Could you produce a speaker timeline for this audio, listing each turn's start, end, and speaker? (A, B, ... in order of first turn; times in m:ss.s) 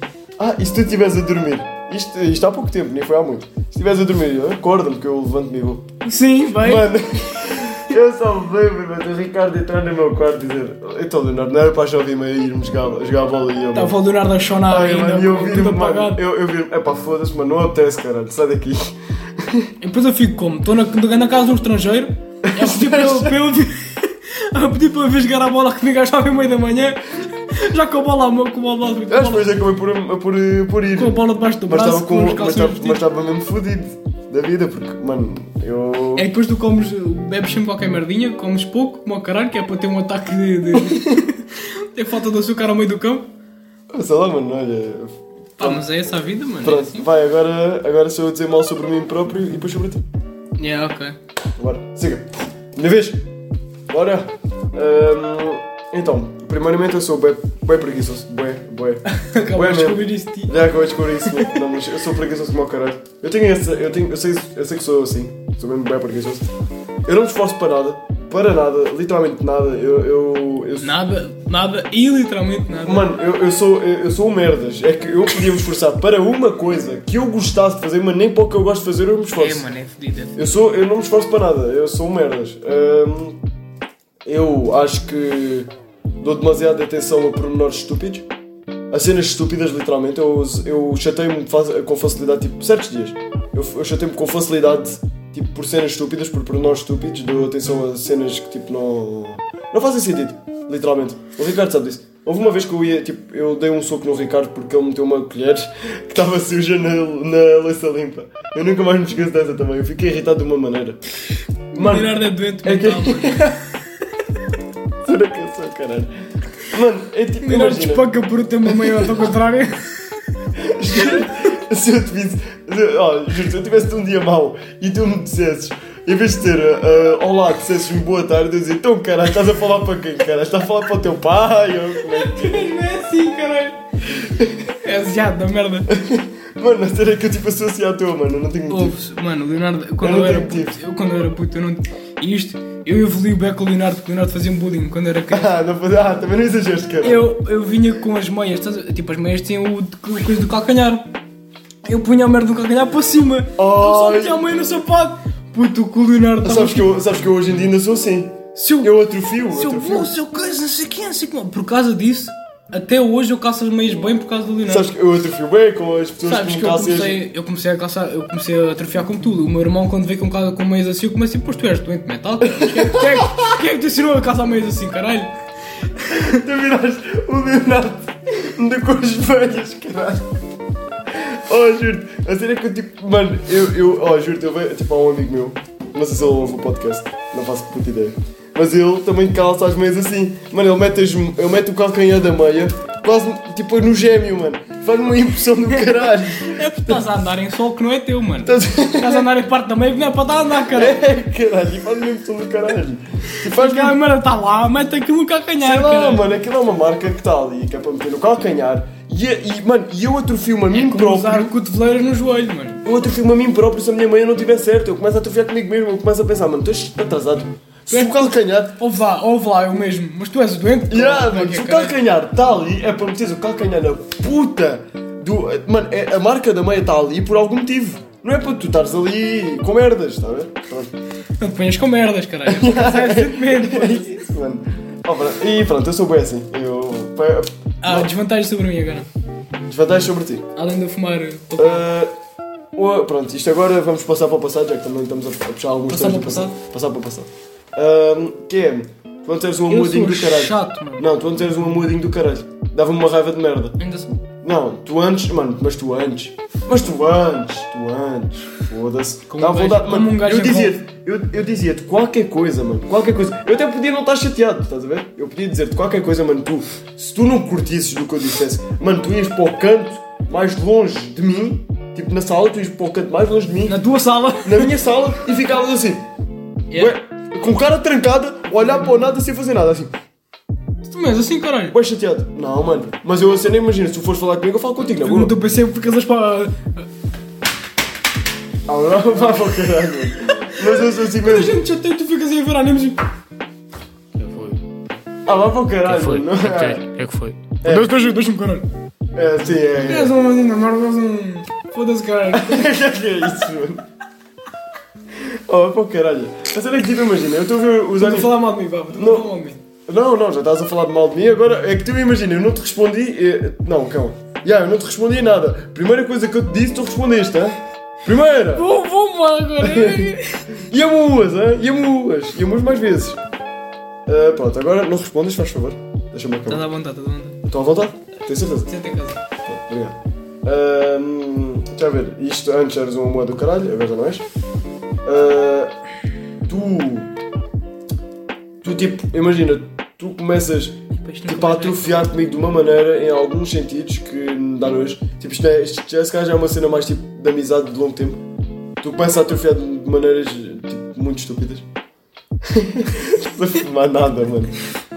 0:00.4-0:05.9 A
0:06.0-0:06.9 B
0:06.6-0:14.0 A
0:13.7-0:16.2 B
0:14.6-0:19.7 A
0:19.8-0:29.5 B
0:22.4-0:23.4 A
0:29.1-0:36.3 A
0:31.0-0:33.0 B
0:36.2-0:43.3 B
0:40.8-0:41.2 A
0:43.9-0:45.8 A
0:45.6-0:47.1 B
0:46.6-0:50.0 A
0:50.6-0:51.2 B
0:51.6-0:53.3 A
0:53.9-0:59.0 A
0:59.1-1:00.5 B
0:59.5-1:06.5 A
1:01.2-1:01.6 B
1:07.1-1:11.0 A
1:10.8-1:13.1 B
1:12.8-1:19.7 A
1:19.4-1:20.4 B
1:20.4-1:23.4 A
1:24.2-1:28.3 A
1:28.9-1:51.0 A
1:51.7-1:53.7 B
1:51.7-1:53.6 A
1:55.0-1:58.1 A
1:57.4-1:59.9 B
1:58.7-1:59.3 A
2:00.6-2:12.7 A
2:01.0-2:01.3 B
2:12.1-2:13.8 B
2:14.2-2:14.6 A
2:14.7-2:15.9 B
2:15.9-2:19.0 A
2:18.7-2:25.5 B
2:20.0-2:20.8 A
2:25.3-2:27.3 A
2:27.0-2:31.1 B
2:31.8-2:37.2 B
2:33.6-2:34.5 A
2:36.4-2:40.1 A
2:38.6-2:38.9 B
2:39.5-2:44.9 B
2:44.7-2:47.2 A
2:46.2-2:55.3 B
2:52.4-2:53.4 A
2:56.1-3:00.3 A
3:01.1-3:17.0 A
3:15.9-3:21.0 B
3:18.4-3:19.3 A
3:20.7-3:24.0 A
3:23.3-3:26.2 B
3:25.6-3:31.6 A
3:30.7-3:32.8 B
3:32.8-3:38.8 A
3:37.9-3:42.0 B
3:40.9-3:50.9 A
3:51.4-3:54.3 B
3:52.4-3:58.1 A
3:57.8-3:59.1 B
3:59.6-4:00.5 A
4:00.6-4:01.8 B
4:01.6-4:02.1 A
4:02.8-4:13.8 A
4:05.9-4:06.5 B
4:09.7-4:11.1 B
4:13.8-4:14.2 B
4:14.4-4:33.8 A
4:19.3-4:20.8 B
4:33.7-4:34.8 B
4:34.4-4:36.0 A
4:36.8-4:39.9 A
4:40.9-4:41.8 B
4:41.7-4:45.4 A
4:45.0-4:46.8 B
4:48.7-4:51.6 A
4:50.4-4:53.0 B
4:54.2-4:54.6 C
4:55.2-4:56.9 A
4:55.9-4:57.6 C
4:56.1-4:58.6 B
4:57.6-4:58.0 A
4:59.2-5:00.2 A
4:59.8-5:02.7 B
5:02.3-5:03.8 A
5:05.1-5:08.4 A
5:08.0-5:09.6 B
5:09.0-5:09.3 A
5:09.9-5:18.7 A
5:18.6-5:20.5 B
5:19.6-5:23.2 A
5:24.1-5:26.6 A
5:26.5-5:27.4 B
5:27.4-5:28.7 A
5:28.7-5:29.2 B
5:29.4-5:34.2 A
5:35.0-5:35.7 A
5:36.5-5:37.1 A
5:38.6-5:48.2 A
5:40.9-5:42.1 B
5:48.8-5:51.7 A
5:52.4-5:54.6 A